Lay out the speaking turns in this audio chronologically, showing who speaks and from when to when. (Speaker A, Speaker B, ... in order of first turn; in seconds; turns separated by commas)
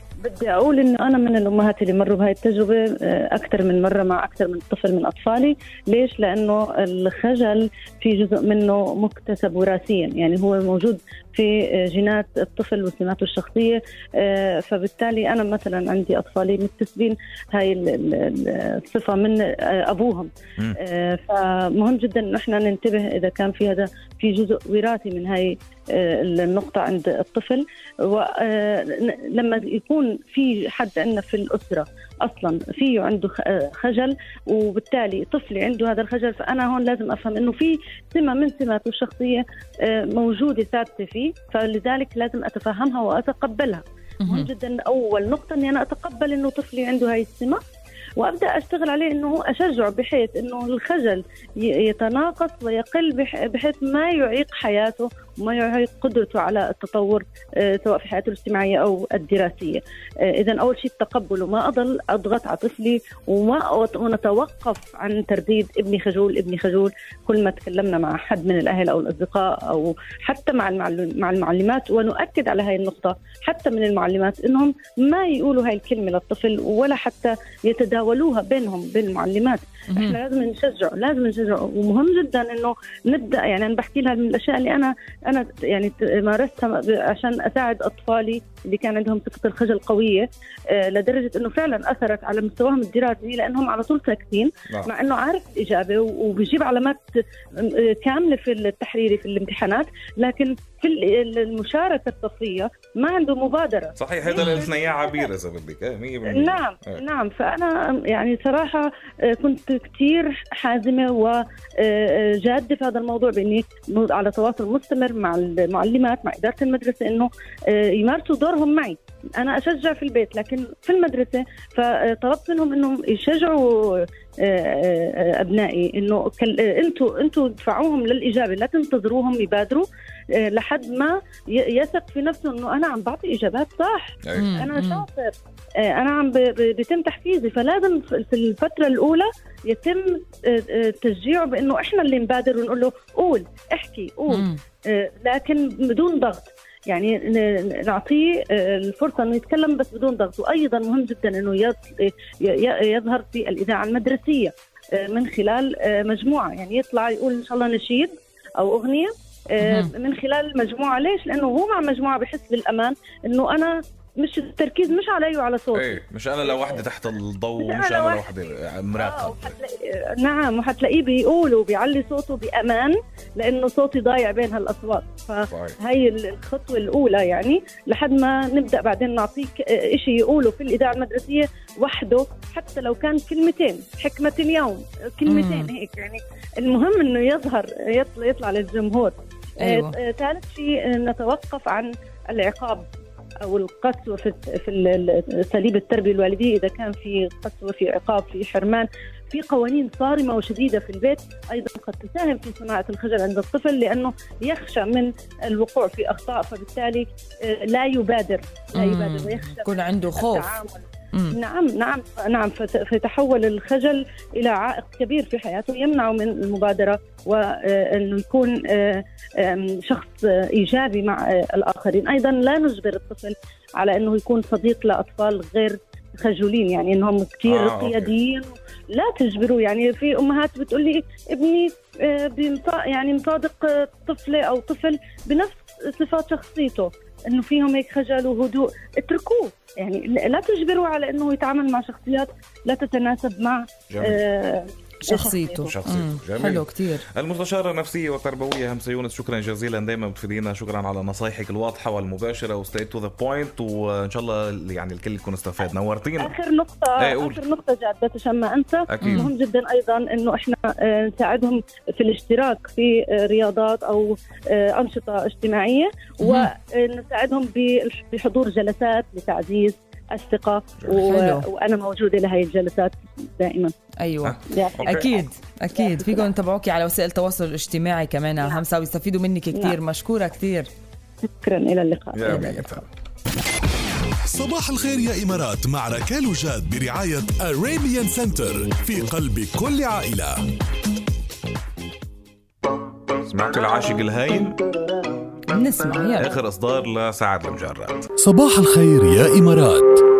Speaker A: 0.2-47.6, Speaker A: 48.2-105.3, Speaker B: 104.0-107.0, Speaker A: 106.3-129.9, Speaker A: 130.4-135.3, Speaker B: 134.2-134.5, Speaker C: 134.4-135.0, Speaker A: 135.8-166.8, Speaker B: 165.7-169.5, Speaker A: 167.6-168.3, Speaker A: 169.0-192.8, Speaker B: 175.5-175.8, Speaker C: 185.2-185.6, Speaker C: 189.6-189.9, Speaker A: 193.4-245.7, Speaker C: 208.8-210.5, Speaker B: 227.4-228.1, Speaker B: 243.9-244.2, Speaker C: 245.1-246.9, Speaker B: 245.7-256.3, Speaker A: 256.2-273.7, Speaker B: 257.0-257.4, Speaker B: 258.9-259.3, Speaker C: 271.1-271.4, Speaker C: 274.0-274.3, Speaker B: 274.2-275.1, Speaker A: 274.5-275.2, Speaker C: 274.9-280.7, Speaker A: 275.7-276.3, Speaker A: 279.5-279.8, Speaker A: 281.2-282.7, Speaker B: 282.1-282.9, Speaker D: 284.3-290.3, Speaker B: 293.3-294.6, Speaker C: 295.5-296.2, Speaker B: 296.2-298.1, Speaker D: 298.2-300.0